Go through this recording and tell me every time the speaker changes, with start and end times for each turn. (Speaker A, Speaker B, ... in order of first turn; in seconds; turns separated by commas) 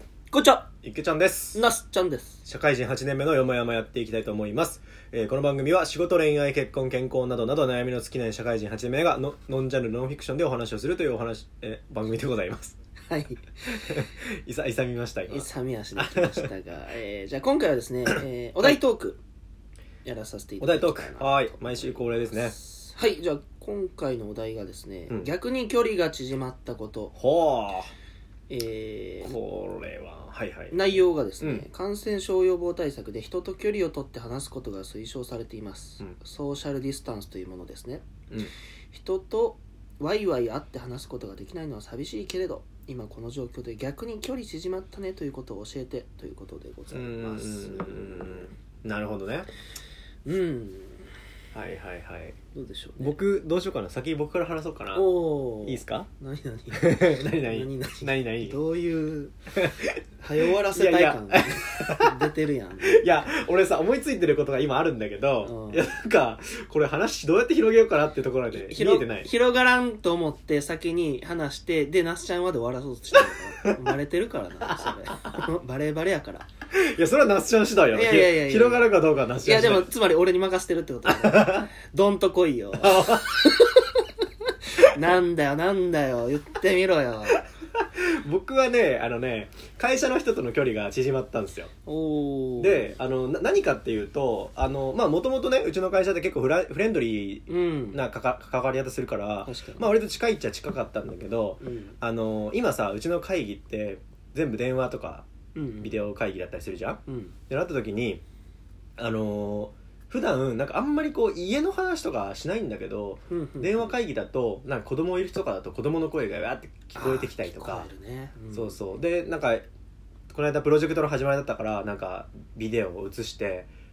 Speaker A: 0.3-0.7, Speaker B: 0.8-1.6, Speaker A: 1.5-2.4, Speaker B: 2.4-12.8, Speaker A: 13.1-14.0, Speaker B: 13.7-16.5, Speaker A: 15.3-19.2, Speaker B: 18.1-18.8, Speaker A: 20.0-27.1, Speaker B: 20.6-22.5, Speaker B: 27.1-27.9, Speaker A: 28.5-29.3, Speaker B: 29.2-31.6, Speaker A: 30.7-38.1, Speaker A: 38.9-48.5, Speaker B: 46.9-49.5, Speaker A: 50.2-51.2, Speaker B: 51.5-52.4, Speaker A: 52.5-53.2, Speaker B: 53.0-55.1, Speaker A: 54.9-59.4, Speaker B: 55.6-56.1, Speaker B: 56.7-58.6, Speaker B: 59.5-62.3, Speaker A: 60.2-63.1, Speaker B: 62.8-69.3, Speaker A: 65.4-65.8, Speaker A: 68.5-76.5, Speaker B: 73.1-73.8, Speaker B: 74.6-75.5, Speaker B: 76.7-79.9, Speaker A: 77.9-84.0, Speaker B: 81.0-81.7, Speaker B: 82.8-83.5, Speaker A: 84.8-87.4, Speaker B: 87.7-91.7, Speaker A: 91.8-93.0, Speaker B: 92.6-105.3, Speaker A: 97.5-98.0, Speaker A: 99.4-99.9, Speaker A: 101.6-102.0, Speaker A: 105.5-106.0, Speaker B: 105.8-108.2, Speaker A: 107.1-107.4, Speaker B: 109.0-117.9, Speaker A: 113.3-114.0, Speaker A: 116.9-118.8, Speaker B: 118.5-119.7, Speaker B: 120.3-123.7